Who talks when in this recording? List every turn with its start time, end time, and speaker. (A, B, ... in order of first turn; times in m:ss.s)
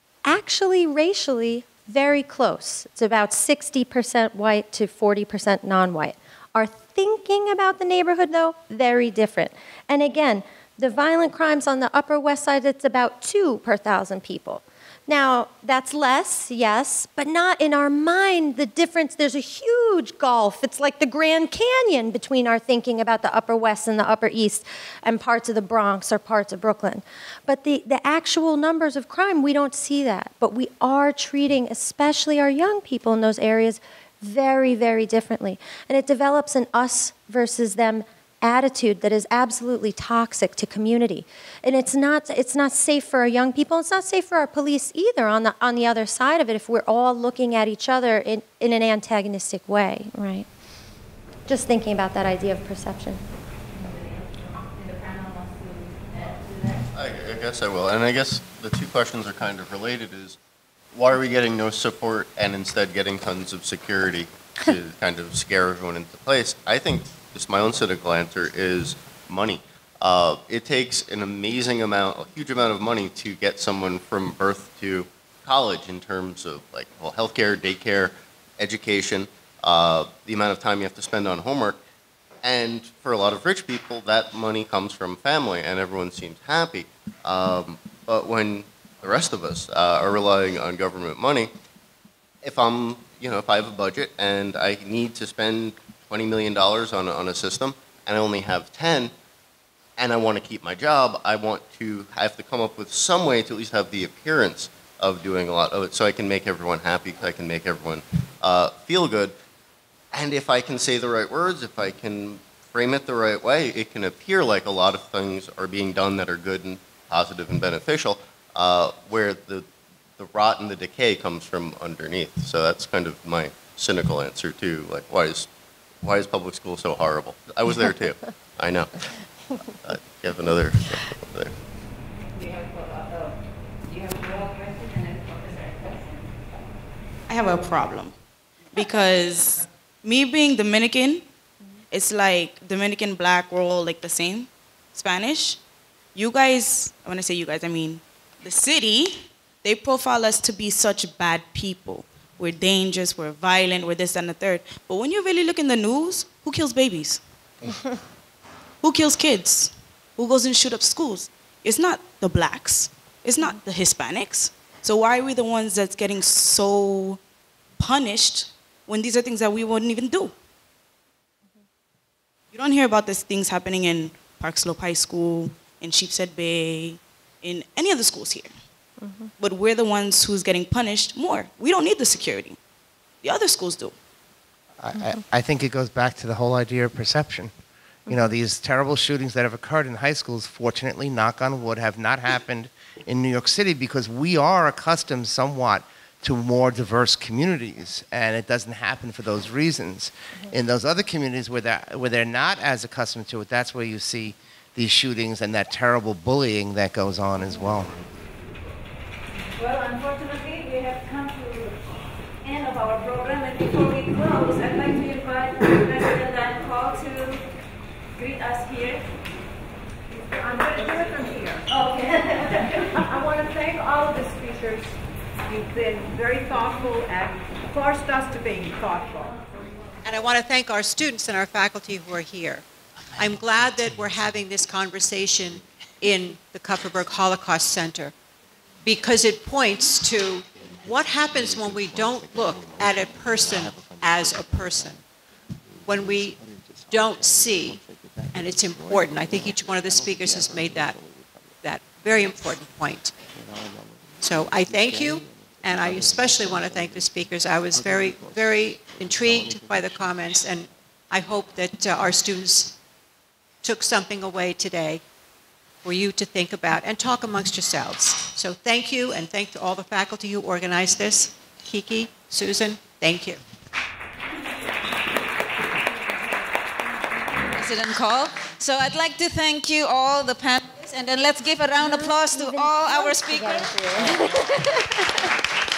0:00.2-0:50.5 A
0:51.5-0:53.2 A
0:53.7-0:56.8 B
0:56.9-1:00.4 C
1:00.9-1:21.8 C
1:22.4-1:31.5 C
1:32.4-1:39.1 C
1:40.0-1:49.3 C
1:50.1-1:59.6 C
2:00.2-2:05.5 C
2:06.0-2:09.1 C
2:09.8-2:11.5 C
2:12.3-2:16.3 B
2:17.3-2:18.2 D
2:18.7-2:21.3 D
2:21.9-2:25.6 D
2:26.1-2:37.2 D
2:38.8-2:47.2 D
2:47.8-2:50.3 D
2:52.5-2:58.5 D
2:59.0-2:59.3 A
2:59.4-3:02.6 D
3:03.2-3:04.0 D
3:04.8-3:07.5 E
3:08.1-3:28.0 E
3:29.5-3:37.5 B
3:38.1-3:39.1 B
3:40.3-3:49.5 F
3:40.4-3:43.0 B
3:50.0-3:52.6 G
3:53.2-3:58.1 G
3:58.8-4:05.0 G
4:05.8-4:11.0 G
4:11.6-4:13.1 G
4:14.2-4:22.8 G
4:23.6-4:25.0 G
4:25.8-4:33.4 G
4:37.4-4:44.2 H
4:41.8-4:45.2 A